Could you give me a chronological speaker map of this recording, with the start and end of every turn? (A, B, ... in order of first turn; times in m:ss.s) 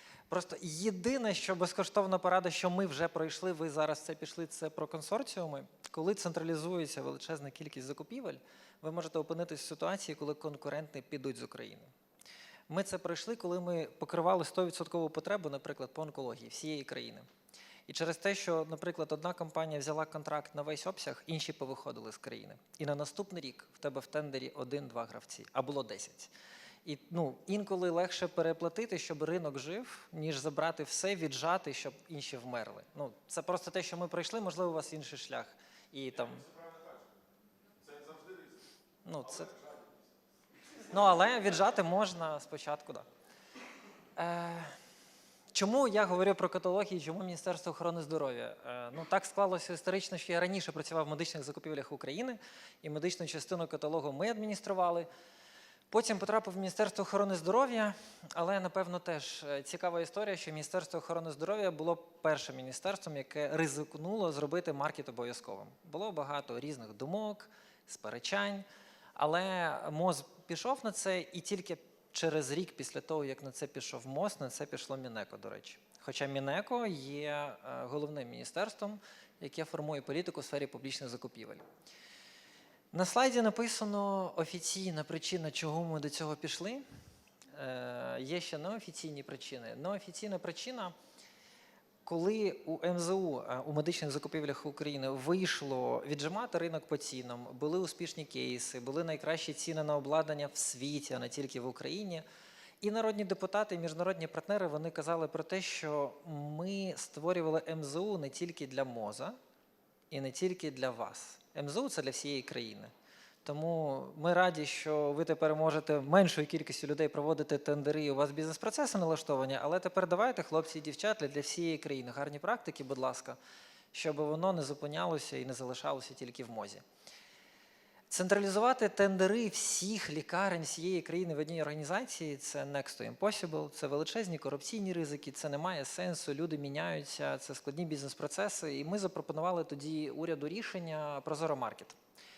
0:00.3-0:11.9 A
0:12.7-0:17.3 A
0:17.9-0:26.3 A
0:26.8-0:36.5 A
0:39.0-0:39.6 A
0:40.9-0:43.1 A
0:44.2-0:44.8 A
0:45.5-0:55.1 A
0:55.9-1:21.6 A
1:22.9-1:26.8 A
1:27.5-1:30.9 A
1:32.0-1:42.2 A
1:42.8-1:49.4 A
1:50.1-1:52.9 A
1:53.4-2:03.4 A
2:03.9-2:06.8 A
2:08.1-2:22.0 A